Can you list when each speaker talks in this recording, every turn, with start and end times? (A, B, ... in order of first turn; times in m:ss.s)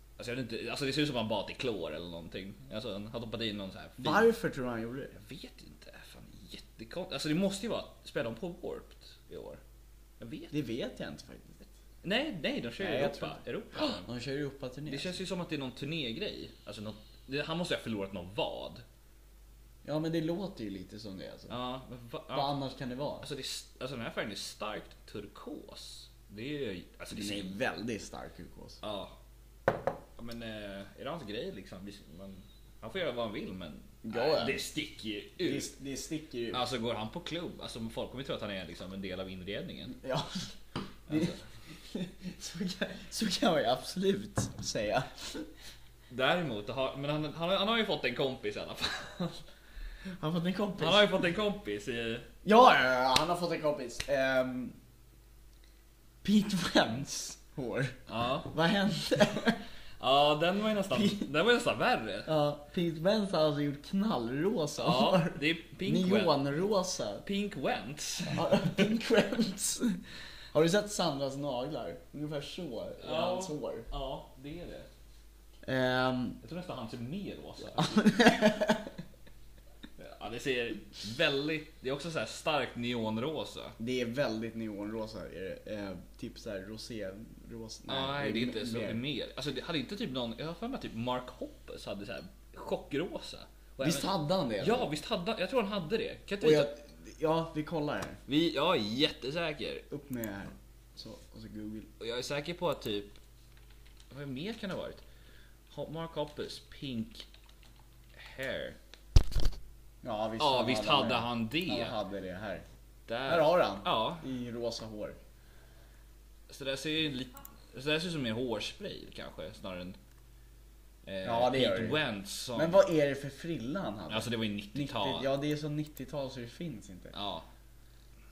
0:00.2-0:04.3 A
0:04.0-0:05.2 B
0:05.2-0:09.6 A
0:10.2-0:10.5 A
0:10.5-0:11.7 B
0:12.0-0:14.1 A
0:12.8-0:15.2 B
0:14.8-0:18.8 A
0:19.8-0:21.6 B
0:21.5-0:22.5 A
0:22.3-0:23.3 B
0:23.2-0:27.6 A
0:27.1-0:28.8 B
0:28.8-0:29.1 A
0:30.2-0:35.7 A
0:34.0-0:34.6 B
0:35.4-0:36.6 B
0:36.5-0:40.0 A
0:39.9-0:40.5 B
0:41.1-0:45.5 B
0:41.1-0:41.4 A
0:46.1-0:49.4 A
0:50.2-0:51.2 B
0:50.8-0:52.3 A
0:52.4-0:54.8 B
0:56.2-0:59.6 B
0:58.1-0:58.5 A
1:00.0-1:02.3 A
1:00.9-1:01.2 B
1:02.2-1:07.2 B
1:04.8-1:06.4 A
1:07.2-1:08.9 A
1:08.3-1:13.9 B
1:13.0-1:14.9 A
1:15.6-1:16.4 B
1:16.4-1:18.2 A
1:17.8-1:18.9 B
1:20.0-1:23.7 A
1:23.8-1:29.0 B
1:27.9-1:36.7 A
1:33.8-1:34.9 B
1:36.4-1:38.2 B
1:38.3-1:39.8 A
1:39.9-1:41.9 B
1:42.0-1:43.2 A
1:44.1-1:45.0 A
1:45.7-1:47.2 A
1:48.1-1:48.8 A
1:50.0-1:52.6 B
1:50.4-1:52.0 A
1:53.1-1:54.2 A
1:53.2-1:55.2 B
1:56.5-2:00.0 A
2:01.0-2:02.8 A
2:01.2-2:02.0 B
2:02.5-2:07.1 B
2:04.1-2:05.3 A
2:07.1-2:07.4 A